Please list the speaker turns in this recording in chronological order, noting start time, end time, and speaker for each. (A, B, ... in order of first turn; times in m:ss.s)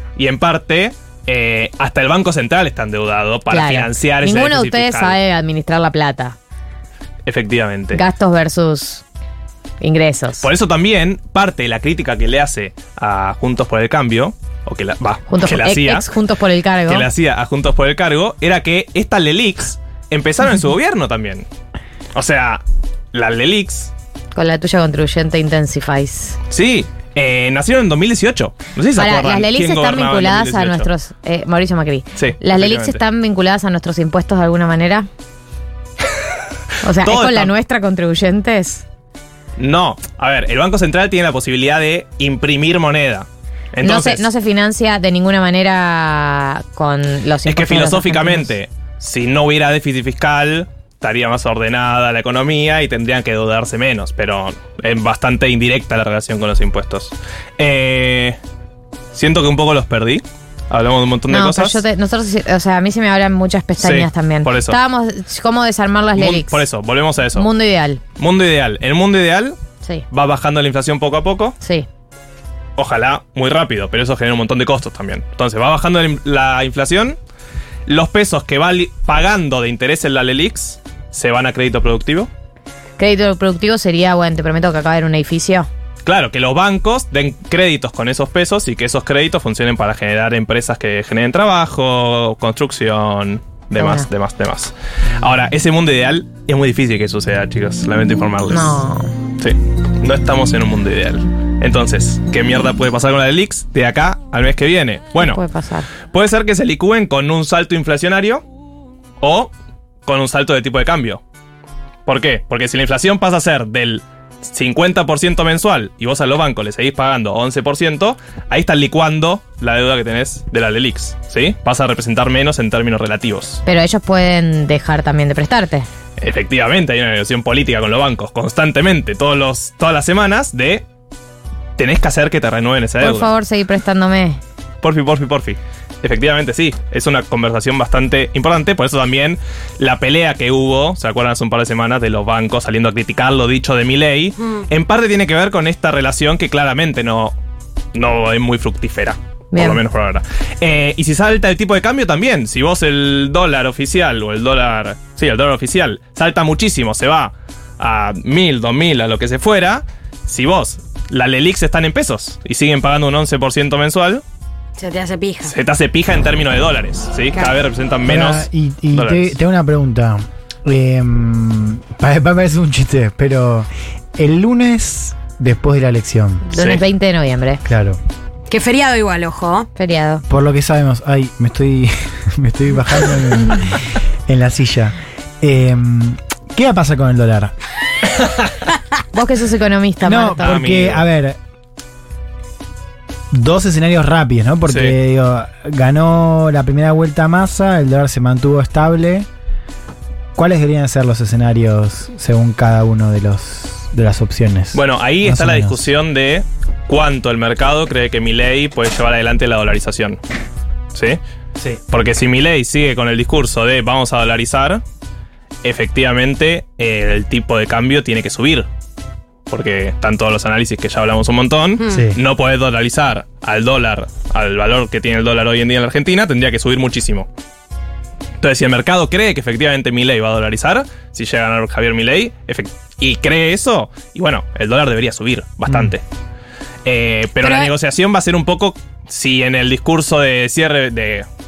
0:00.2-0:05.2 A
0:03.5-0:06.4 B
0:07.3-0:08.0 A
0:07.9-0:09.0 B
0:09.8-0:10.5 B
0:10.4-0:16.1 A
0:15.3-0:17.1 B
0:16.9-0:21.5 A
0:22.2-0:22.6 A
0:23.1-0:23.9 A
0:24.4-0:26.4 B
0:26.5-0:30.9 A
0:29.0-0:35.1 B
0:32.2-0:33.0 A
0:36.8-0:38.8 B
0:37.0-0:37.5 A
0:39.6-0:44.3 A
0:43.8-0:48.5 B
0:47.5-0:58.4 A
0:59.1-1:01.8 A
1:01.3-1:06.6 B
1:03.8-1:04.8 A
1:06.2-1:07.5 A
1:07.4-1:08.0 B
1:08.2-1:09.6 A
1:10.1-1:11.6 A
1:11.6-1:11.9 B
1:12.8-1:17.2 A
1:17.9-1:22.3 A
1:23.0-1:25.7 B
1:26.0-1:38.8 A
1:33.8-1:34.1 B
1:38.5-1:39.1 B
1:39.4-1:45.4 A
1:45.2-1:45.9 B
1:46.1-1:48.4 A
1:49.2-1:49.5 A
1:50.1-1:51.2 A
1:52.1-2:03.6 A
2:03.7-2:05.9 B
2:06.2-2:10.8 A
2:11.8-2:13.3 A
2:13.0-2:14.4 B
2:14.8-2:27.3 A
2:27.9-2:44.2 A
2:29.5-2:29.8 B
2:44.8-2:45.6 C
2:45.4-2:49.3 A
2:48.1-2:56.5 D
2:56.5-2:57.6 B
2:56.6-2:56.8 A
2:57.6-2:58.0 D
2:58.5-2:59.7 C
2:59.8-3:00.2 B
3:00.3-3:07.5 D
3:09.1-3:10.6 B
3:10.0-3:11.4 D
3:10.4-3:11.0 A
3:13.3-3:19.3 D
3:14.7-3:14.9 A
3:20.4-3:25.8 D
3:24.7-3:30.2 A
3:30.9-3:31.2 A
3:31.9-3:34.8 A
3:35.6-3:38.7 A
3:39.5-3:47.3 A
3:41.8-3:42.1 C
3:41.9-3:42.2 D
3:48.4-3:56.0 A
3:56.8-4:01.3 A
3:57.4-3:57.7 C